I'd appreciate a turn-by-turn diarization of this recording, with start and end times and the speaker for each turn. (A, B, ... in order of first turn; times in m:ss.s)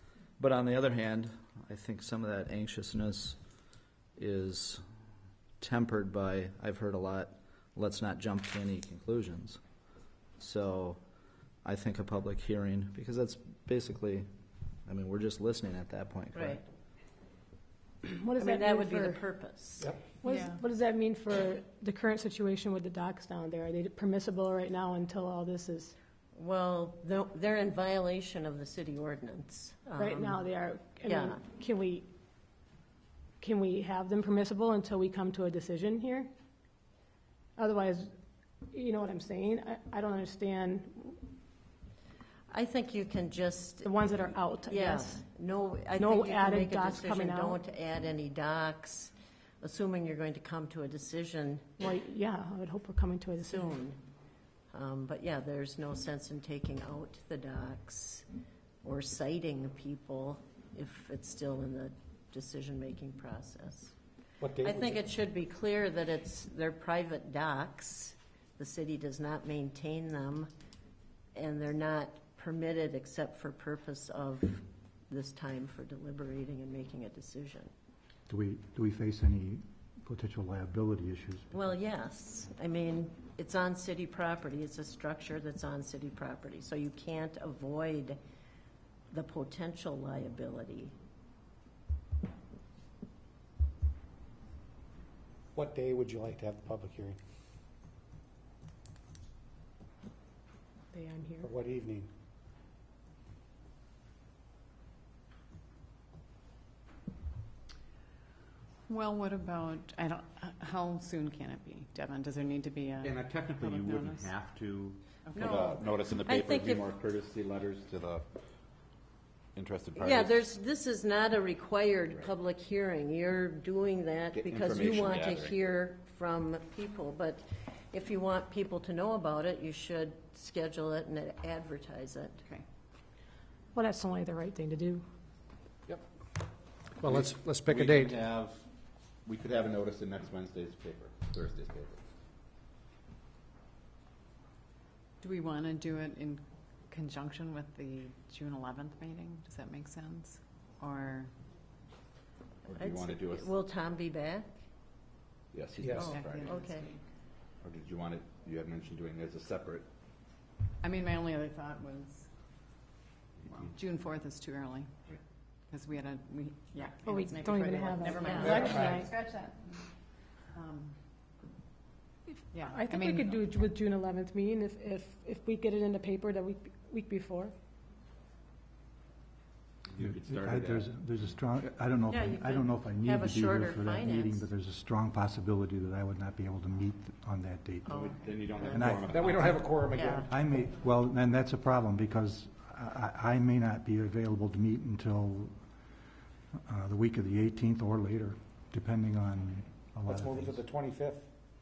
0:00.4-0:03.4 A
0:04.2-0:04.8 A
0:05.6-0:09.6 A
0:10.4-0:11.0 A
0:11.6-0:14.3 A
0:14.9-0:16.6 A
0:16.3-0:16.6 B
0:18.0-0:19.2 C
0:18.4-0:19.9 B
0:20.2-0:25.9 C
0:20.2-0:20.6 D
0:26.3-0:30.4 B
0:30.0-0:32.1 C
0:31.0-0:31.4 B
0:33.4-0:36.3 C
0:37.6-0:38.1 C
0:38.7-0:41.2 C
0:42.5-0:44.0 B
0:43.8-0:45.2 C
0:44.6-0:51.8 B
0:46.0-0:47.6 C
0:51.8-0:53.8 C
0:53.4-0:54.0 B
0:54.7-0:58.2 B
0:58.8-1:03.9 B
1:04.4-1:05.0 E
1:04.6-1:10.5 B
1:11.3-1:17.7 B
1:18.3-1:21.5 F
1:21.5-1:28.2 B
1:29.1-1:30.9 B
1:35.5-1:37.2 E
1:40.9-1:41.5 C
1:41.4-1:42.1 E
1:48.9-1:54.3 D
1:53.0-1:58.2 G
1:55.3-1:55.6 D
1:55.3-1:56.9 B
1:59.5-2:00.5 G
1:59.9-2:12.4 B
2:04.3-2:05.6 G
2:13.7-2:15.0 C
2:17.0-2:18.2 E
2:17.0-2:18.6 G
2:19.2-2:22.0 G
2:25.2-2:31.3 D
2:32.7-2:33.5 G
2:32.7-2:34.6 B
2:35.5-2:36.5 G
2:35.8-2:36.2 E
2:35.9-2:36.9 B
2:36.0-2:37.0 D
2:37.6-2:39.9 G
2:40.8-2:42.3 D
2:43.5-2:44.9 D
2:45.7-2:49.9 D
2:47.0-2:49.1 C
2:48.2-2:48.6 B
2:48.3-2:49.0 E
2:50.5-2:51.0 D
2:52.5-2:53.4 D
2:52.7-2:57.5 C
2:59.8-3:00.9 G
3:00.0-3:08.1 F
3:02.1-3:04.5 B
3:07.8-3:10.3 D
3:07.9-3:09.6 G
3:08.7-3:09.1 F
3:09.1-3:10.3 E
3:10.3-3:15.6 F
3:16.7-3:20.6 F
3:20.0-3:21.2 E